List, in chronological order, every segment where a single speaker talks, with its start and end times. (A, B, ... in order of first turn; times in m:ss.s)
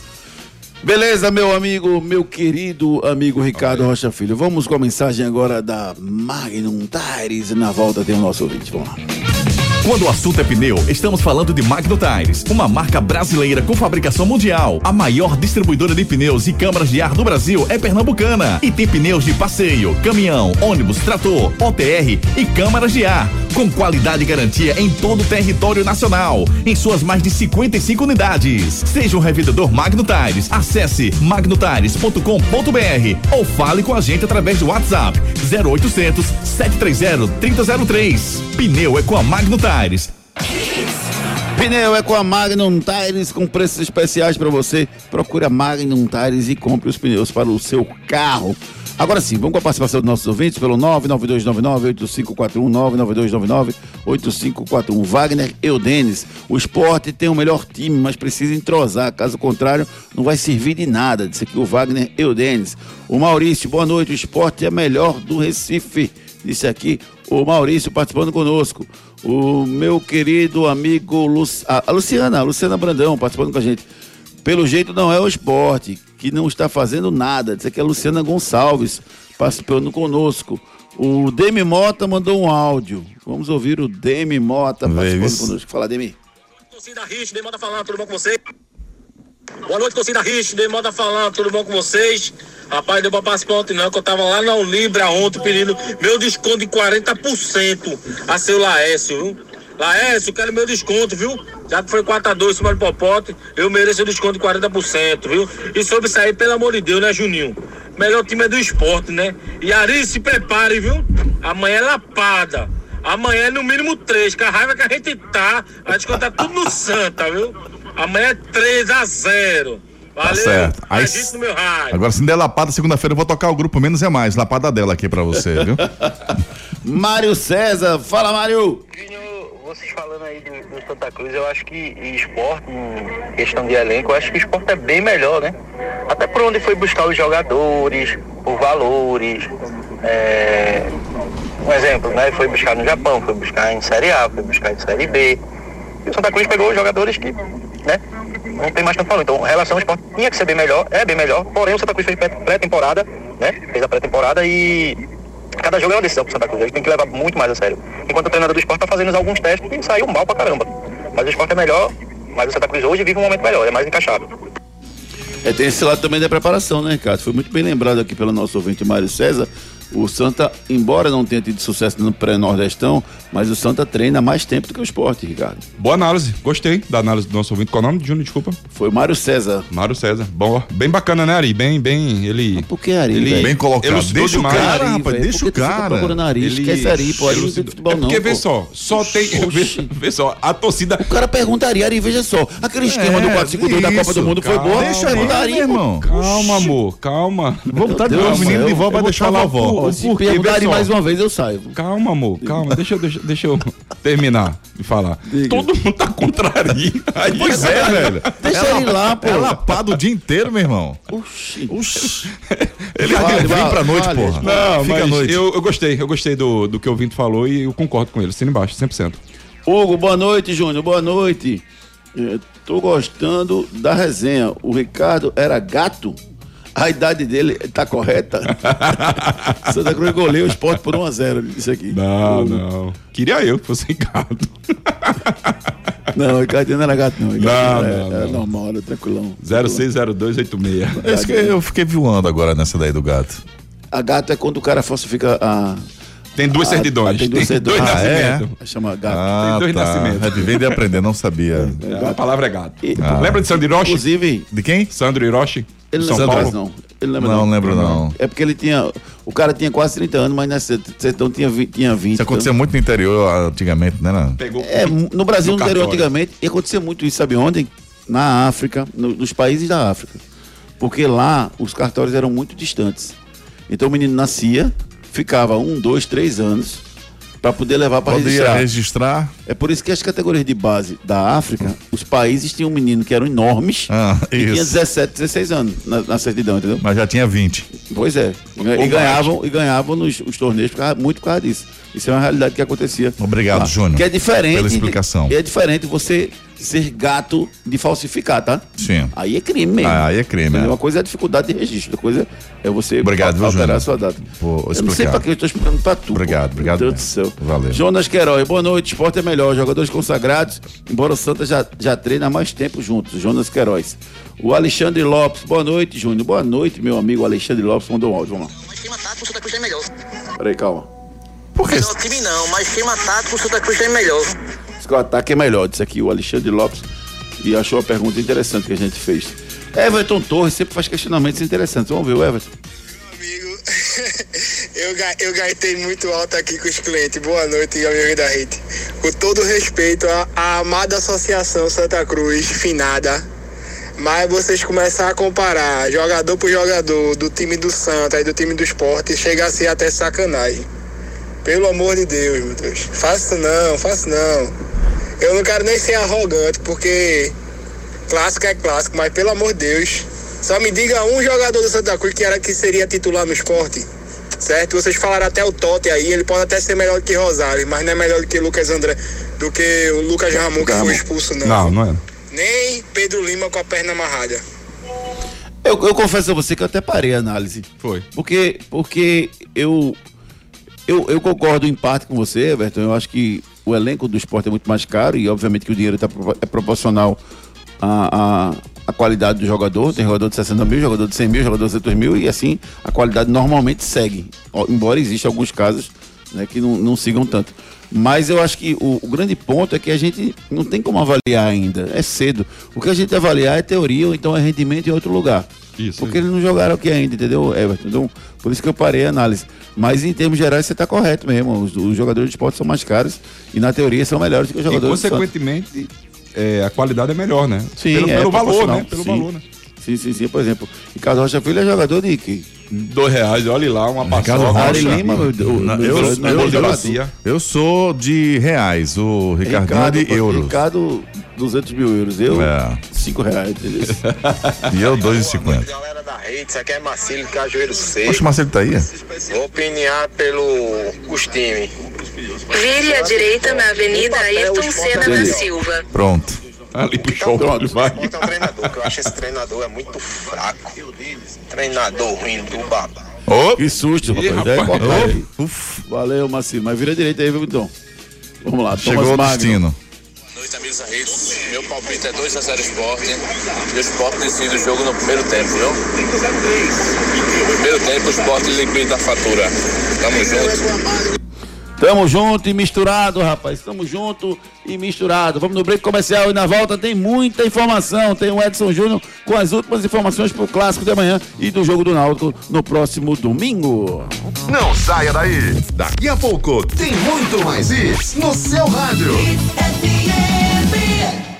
0:00.8-0:09.0 A
0:03.5-0:03.9 B
0:09.8-0:40.1 C
0:41.5-1:13.8 A
1:14.4-1:26.1 A
1:24.8-1:25.5 D
1:26.7-1:28.4 E
1:29.6-2:02.0 E
2:00.2-2:01.3 D
2:01.9-2:05.8 D
2:06.8-2:08.8 A
2:08.9-2:15.6 F
2:16.1-2:19.5 F
2:20.0-2:20.9 F
2:21.6-2:25.4 F
2:26.0-2:28.0 F
2:28.6-2:35.0 F
2:35.6-2:44.3 F
2:45.4-2:55.6 A
2:55.8-2:58.6 B
2:58.7-2:59.6 A
2:59.7-3:04.8 B
3:02.6-3:03.6 A
3:03.3-3:06.2 D
3:04.3-3:09.9 A
3:06.4-3:11.0 B
3:11.0-3:16.7 A
3:12.8-3:16.1 D
3:14.2-3:15.4 B
3:16.0-3:20.9 B
3:17.7-3:20.0 D
3:17.8-3:18.9 A
3:19.6-3:21.8 A
3:21.7-3:28.2 B
3:22.4-3:22.8 A
3:25.3-3:25.7 A
3:27.3-3:31.0 D
3:27.4-3:29.8 A
3:31.1-3:31.7 A
3:31.7-3:32.3 D
3:32.9-3:33.8 B
3:33.0-3:35.4 D
3:33.0-3:34.5 A
3:34.4-3:39.2 B
3:39.6-3:41.6 A
3:42.1-3:46.2 A
3:46.7-3:48.8 A
3:48.6-3:50.0 B
3:49.7-3:52.6 A
3:51.9-3:55.5 B
3:56.1-3:59.8 A
3:57.4-3:58.4 B
3:59.4-4:01.1 B
4:01.0-4:01.6 A
4:01.0-4:03.4 D
4:03.9-4:05.8 A
4:06.4-4:08.5 B
4:06.5-4:09.2 A
4:07.7-4:08.5 D
4:09.1-4:11.8 D
4:09.4-4:11.0 B
4:11.7-4:14.0 B
4:11.8-4:12.2 A
4:12.8-4:14.4 A
4:13.0-4:13.5 D
4:14.5-4:14.9 D
4:14.9-4:16.5 B
4:15.9-4:22.5 A
4:16.0-4:16.6 D
4:17.2-4:18.1 D
4:17.7-4:18.0 B
4:22.2-4:24.4 D
4:24.4-4:26.1 B
4:24.6-4:30.2 A
4:30.8-4:33.1 A
4:33.7-4:36.8 A
4:37.4-4:38.7 A
4:38.0-4:39.3 D
4:39.5-4:46.8 A
4:43.9-4:44.8 D
4:46.8-4:47.7 D
4:47.7-5:18.5 A
4:48.8-4:49.3 B
4:53.2-4:55.3 D
4:58.8-4:59.1 D
4:59.8-5:00.8 D
5:03.0-5:05.2 D
5:06.1-5:07.8 D
5:20.4-5:20.9 A
5:24.8-5:26.8 A
5:27.4-5:32.5 A
5:33.1-5:43.2 G
5:44.0-5:50.6 G
5:51.4-5:54.5 G
5:55.2-5:57.3 G
5:58.1-6:03.8 G
6:04.4-6:11.7 G
6:10.3-6:11.0 A
6:11.4-6:12.0 B
6:12.3-6:14.4 G
6:15.6-6:20.0 A
6:17.8-6:18.0 B
6:20.9-6:27.2 A
6:27.8-6:45.5 A
6:45.8-6:46.2 B
6:46.0-6:55.2 A
6:54.7-6:59.4 B
6:57.8-6:59.3 A
6:59.8-7:02.5 A
7:02.7-7:07.1 B
7:04.0-7:10.6 D
7:04.5-7:07.0 A
7:09.4-7:14.0 A
7:12.3-7:12.8 D
7:14.7-7:15.7 D
7:18.0-7:18.9 D
7:22.5-7:25.8 H
7:24.9-7:25.4 A
7:25.9-7:26.4 D
7:26.7-7:29.1 B
7:27.4-7:27.8 A
7:33.3-7:33.5 D
7:33.6-7:35.3 A
7:34.1-7:35.2 B
7:34.8-7:35.8 D
7:35.9-7:37.7 A
7:38.4-7:39.6 A
7:38.7-7:39.8 D
7:40.4-7:45.8 I
7:47.3-7:50.8 I
7:51.8-8:04.1 A
8:04.6-8:09.2 D